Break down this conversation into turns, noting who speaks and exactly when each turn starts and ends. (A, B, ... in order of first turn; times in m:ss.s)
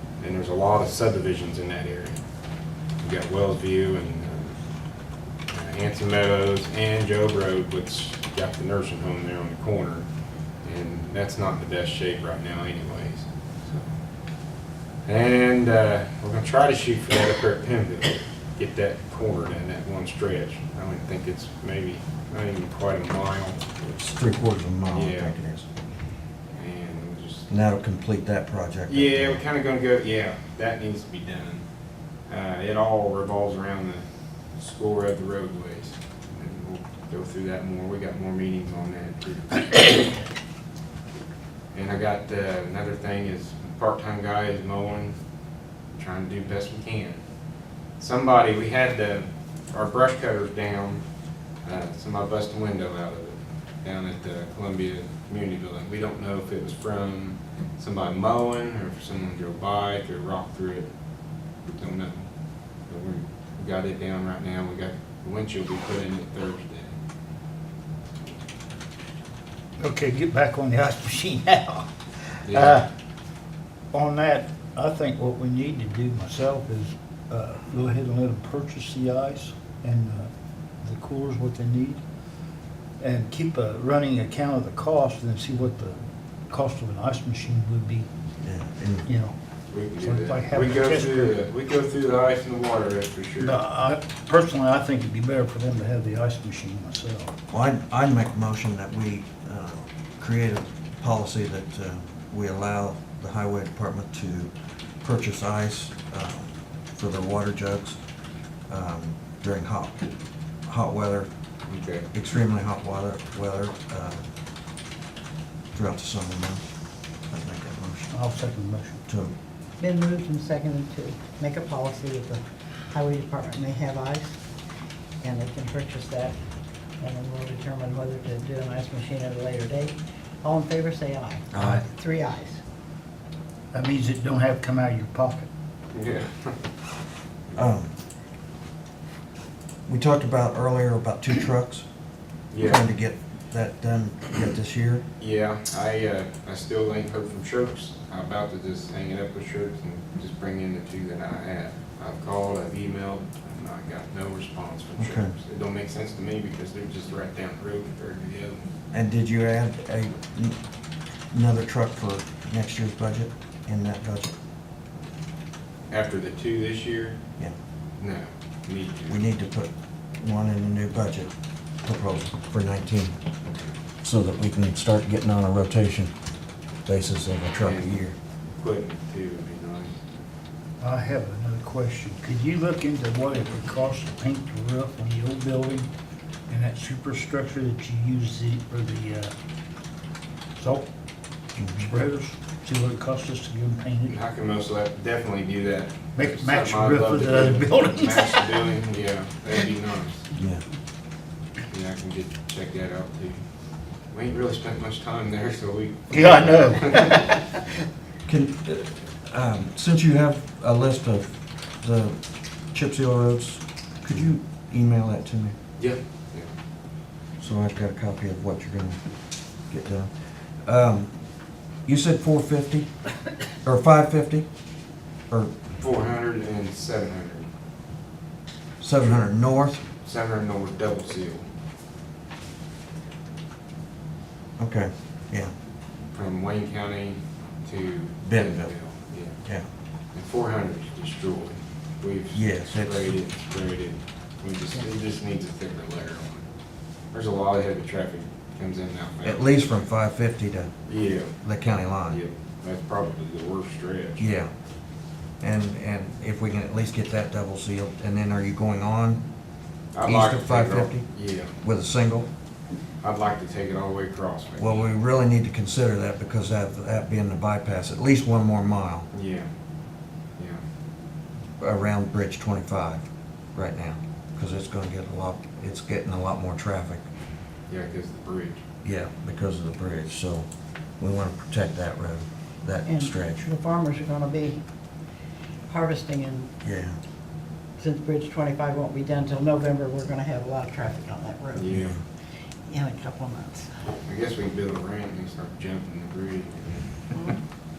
0:00.2-0:02.2 A
0:03.0-0:04.6 A
0:05.5-0:10.1 A
0:10.6-0:13.9 A
0:15.1-0:23.6 A
0:23.8-0:25.7 B
0:24.9-0:25.3 A
0:26.5-0:27.5 A
0:27.5-0:29.4 B
0:28.9-0:31.6 A
0:32.3-0:34.0 A
0:34.6-0:40.2 A
0:41.7-0:45.1 A
0:46.0-0:47.2 A
0:48.0-0:51.0 A
0:51.6-1:00.9 A
1:01.7-1:02.3 A
1:02.9-1:06.9 A
1:09.8-1:11.9 C
1:12.5-1:12.8 A
1:12.5-1:12.9 C
1:13.9-1:20.3 C
1:20.8-1:22.0 C
1:23.0-1:26.0 C
1:26.5-1:28.1 C
1:28.4-1:29.1 B
1:29.1-1:29.4 C
1:29.7-1:33.6 A
1:30.0-1:31.3 C
1:33.4-1:37.4 C
1:37.5-1:48.0 B
1:48.7-1:50.0 B
1:50.7-1:51.3 B
1:51.7-1:52.1 A
1:52.1-1:54.2 B
1:55.7-1:56.6 B
1:57.3-1:58.1 B
1:58.1-1:59.0 C
1:59.1-1:59.3 B
1:59.8-2:04.4 D
2:05.2-2:06.4 D
2:07.0-2:12.6 D
2:11.5-2:11.8 B
2:13.7-2:15.5 C
2:15.9-2:16.6 A
2:17.6-2:17.9 B
2:19.9-2:21.8 B
2:22.5-2:22.8 A
2:22.6-2:25.1 B
2:25.2-2:38.7 A
2:35.0-2:35.3 B
2:38.9-2:40.6 B
2:41.3-2:44.4 B
2:45.9-2:47.2 A
2:48.0-2:49.2 A
2:49.1-2:51.3 B
2:51.8-2:53.2 B
2:53.4-2:53.7 A
2:54.0-2:56.1 B
2:56.9-2:58.2 B
2:57.6-2:58.0 A
2:58.6-3:00.0 A
3:00.8-3:05.9 C
3:06.5-3:09.3 C
3:10.6-3:10.9 C
3:11.6-3:11.9 B
3:11.8-3:14.2 C
3:14.1-3:20.3 A
3:16.2-3:18.6 C
3:20.3-3:20.6 B
3:21.7-3:23.4 A
3:24.1-3:27.3 A
3:26.1-3:27.6 C
3:28.3-3:35.6 B
3:35.8-3:36.5 A
3:37.4-3:39.0 B
3:39.6-3:41.2 B
3:41.8-3:42.9 B
3:43.6-3:44.5 B
3:45.8-3:47.5 A
3:48.8-3:49.8 B
3:49.0-3:49.2 A
3:50.0-3:51.5 A
3:54.6-3:55.5 B
3:56.1-3:59.3 A
3:58.2-3:58.7 B
4:00.1-4:06.5 A
4:02.4-4:03.1 B
4:07.1-4:09.9 A
4:09.2-4:10.7 B
4:10.9-4:11.3 A
4:11.4-4:12.2 B
4:12.1-4:14.3 A
4:14.2-4:14.5 B
4:15.4-4:19.2 B
4:19.9-4:21.5 A
4:20.0-4:21.1 B
4:21.6-4:22.3 B
4:23.0-4:24.9 A
4:24.6-4:29.1 B
4:29.1-4:29.5 A
4:30.4-4:30.6 A
4:31.6-4:37.0 B
4:37.7-4:38.6 A
4:38.8-4:40.4 B
4:41.0-4:43.4 B
4:42.9-4:44.6 D
4:45.7-4:46.5 D
4:46.6-4:47.0 B
4:47.8-4:51.8 D
4:51.6-4:52.0 A
4:51.7-4:52.0 B
4:52.7-4:53.7 D
4:54.1-4:57.3 A